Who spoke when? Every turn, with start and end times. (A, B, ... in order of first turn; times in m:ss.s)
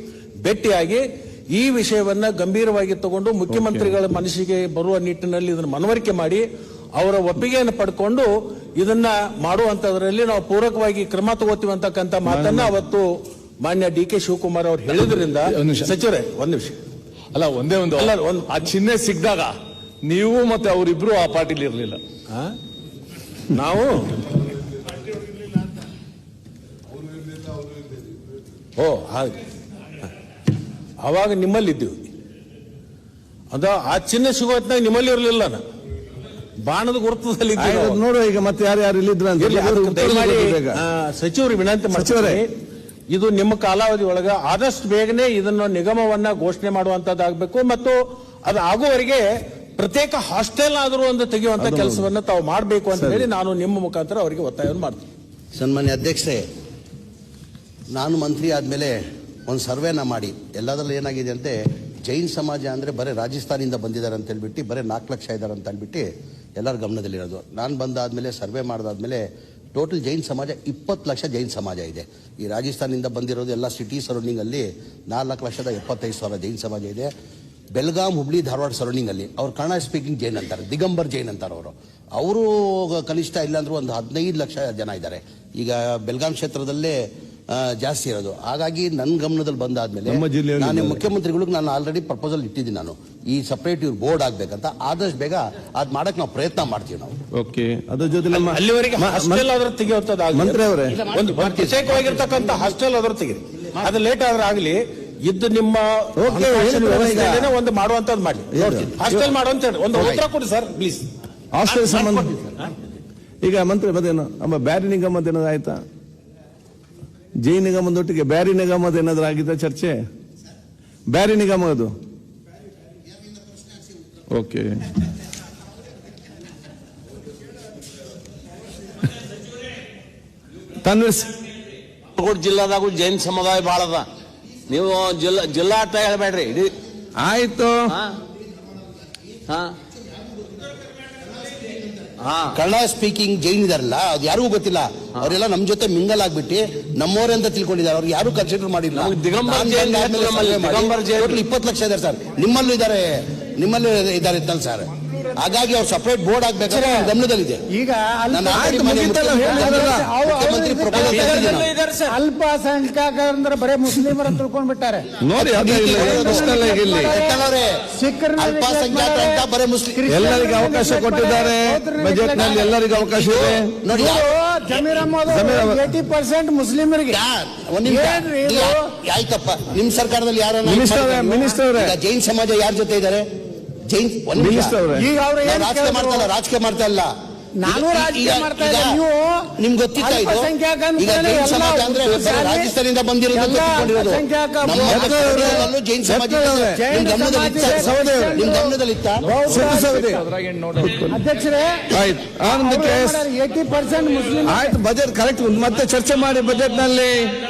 0:00.4-0:16.8 A
0:03.5-0:04.0 B
0:12.3-0:12.7 B
0:17.3-0:22.0 C
0:17.9-0:18.7 A
0:22.3-0:22.6 A
0:23.5-0:24.2 A
0:28.8-0:29.4 A
0:31.0-0:32.1 A
0:33.5-0:35.6 A
0:36.6-0:38.0 A
0:37.6-0:40.8 B
0:39.4-0:42.5 A
0:41.9-0:42.4 B
0:43.1-0:55.1 A
0:51.6-0:52.1 B
0:52.9-0:53.3 B
0:55.6-0:56.4 D
0:57.9-1:17.1 D
1:17.8-1:37.2 D
1:30.1-1:31.0 B
1:37.3-1:39.5 B
1:38.3-1:51.1 A
1:40.3-1:41.1 B
1:41.2-1:41.9 D
1:46.2-1:47.5 B
1:48.5-1:49.3 B
1:51.5-1:52.4 B
1:51.8-1:52.6 A
1:53.4-1:55.8 B
1:57.4-2:00.0 B
2:01.1-2:01.9 B
2:04.3-2:04.8 B
2:10.8-2:11.3 B
2:12.2-2:14.1 E
2:14.7-2:16.7 E
2:17.2-2:18.0 B
2:17.9-2:18.2 E
2:19.5-2:19.8 E
2:22.2-2:22.6 E
2:22.5-2:37.7 D
2:28.9-2:31.4 E
2:36.7-2:37.1 F
2:37.7-2:41.5 F
2:38.3-2:41.7 D
2:38.5-2:40.1 B
2:40.9-2:42.2 E
2:42.1-2:45.1 F
2:45.2-2:47.1 B
2:45.4-2:50.5 D
2:45.7-2:47.4 F
2:48.0-2:52.7 F
2:50.1-2:53.8 B
2:52.4-2:54.4 D
2:53.9-2:57.2 F
2:55.3-2:55.9 B
2:57.1-3:03.2 D
2:57.9-2:58.9 F
3:00.6-3:02.0 B
3:03.8-3:04.8 D
3:04.4-3:05.1 B
3:04.9-3:06.3 F
3:05.4-3:07.1 D
3:07.6-3:12.7 F
3:07.6-3:09.0 D
3:09.6-3:19.4 D
3:13.3-3:15.7 F
3:14.8-3:16.8 B
3:16.7-3:20.2 F
3:17.6-3:18.4 B
3:19.4-3:21.2 B
3:21.1-3:21.9 F
3:21.9-3:23.3 B
3:22.4-3:24.8 F
3:24.4-3:27.4 B